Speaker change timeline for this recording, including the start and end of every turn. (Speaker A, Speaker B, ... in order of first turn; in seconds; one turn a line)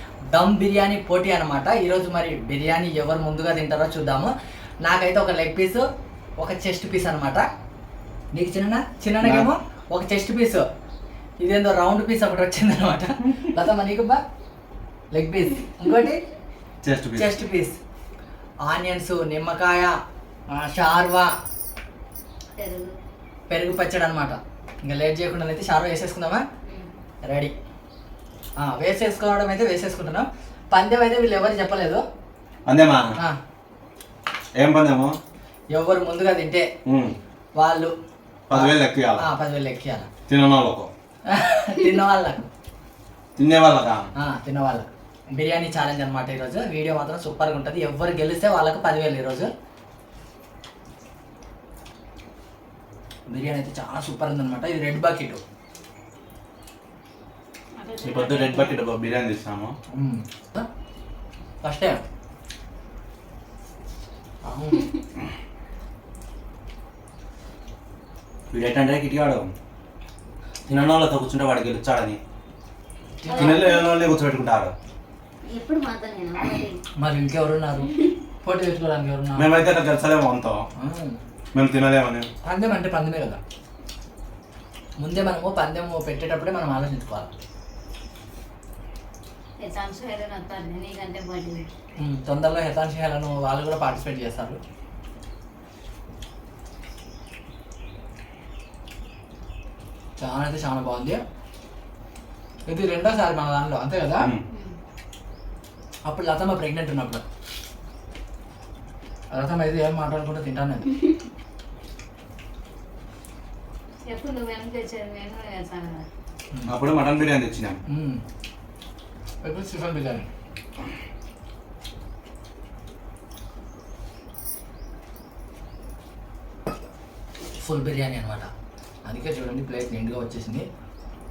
Speaker A: 0.3-4.3
Speaker A: 4.8-5.8
Speaker A: 6.4-7.4
Speaker A: 8.3-10.6
Speaker B: 9.2-9.5
Speaker A: 11.4-14.2
Speaker A: 15.1-16.2
Speaker B: 16.8-17.4
Speaker A: 17.1-17.8
Speaker A: 18.6-19.9
Speaker A: 20.5-21.3
Speaker C: 22.6-22.9
Speaker A: 23.5-26.4
Speaker A: 27.2-27.5
Speaker A: 28.6-32.0
Speaker B: 32.7-33.2
Speaker B: 34.6-35.2
Speaker A: 35.7-36.7
Speaker B: 36.9-37.2
Speaker A: 37.6-37.9
Speaker B: 38.5-39.3
Speaker A: 38.5-40.1
Speaker B: 40.3-40.9
Speaker A: 41.3-42.5
Speaker B: 43.4-44.1
Speaker A: 44.2-49.5
Speaker A: 53.3-55.4
Speaker C: 57.8-58.8
Speaker B: 58.0-59.7
Speaker A: 59.9-60.7
Speaker A: 61.6-62.0
Speaker A: 64.4-64.9
Speaker B: 68.5-69.5
Speaker B: 70.7-72.2
Speaker A: 73.2-73.7
Speaker C: 73.2-73.8
Speaker B: 73.3-74.7
Speaker C: 75.5-76.8
Speaker A: 77.0-79.5
Speaker B: 79.3-80.7
Speaker A: 80.8-81.2
Speaker B: 81.5-82.3
Speaker A: 82.4-83.4
Speaker A: 85.0-87.3
Speaker C: 89.6-91.6
Speaker A: 92.0-94.6
Speaker A: 100.2-101.2
Speaker A: 102.7-104.3
Speaker A: 106.0-107.2
Speaker A: 109.3-110.9
Speaker C: 114.0-116.0
Speaker B: 116.7-117.8
Speaker A: 117.9-118.2
Speaker A: 119.4-120.3
Speaker A: 127.6-128.5
Speaker A: 129.1-130.6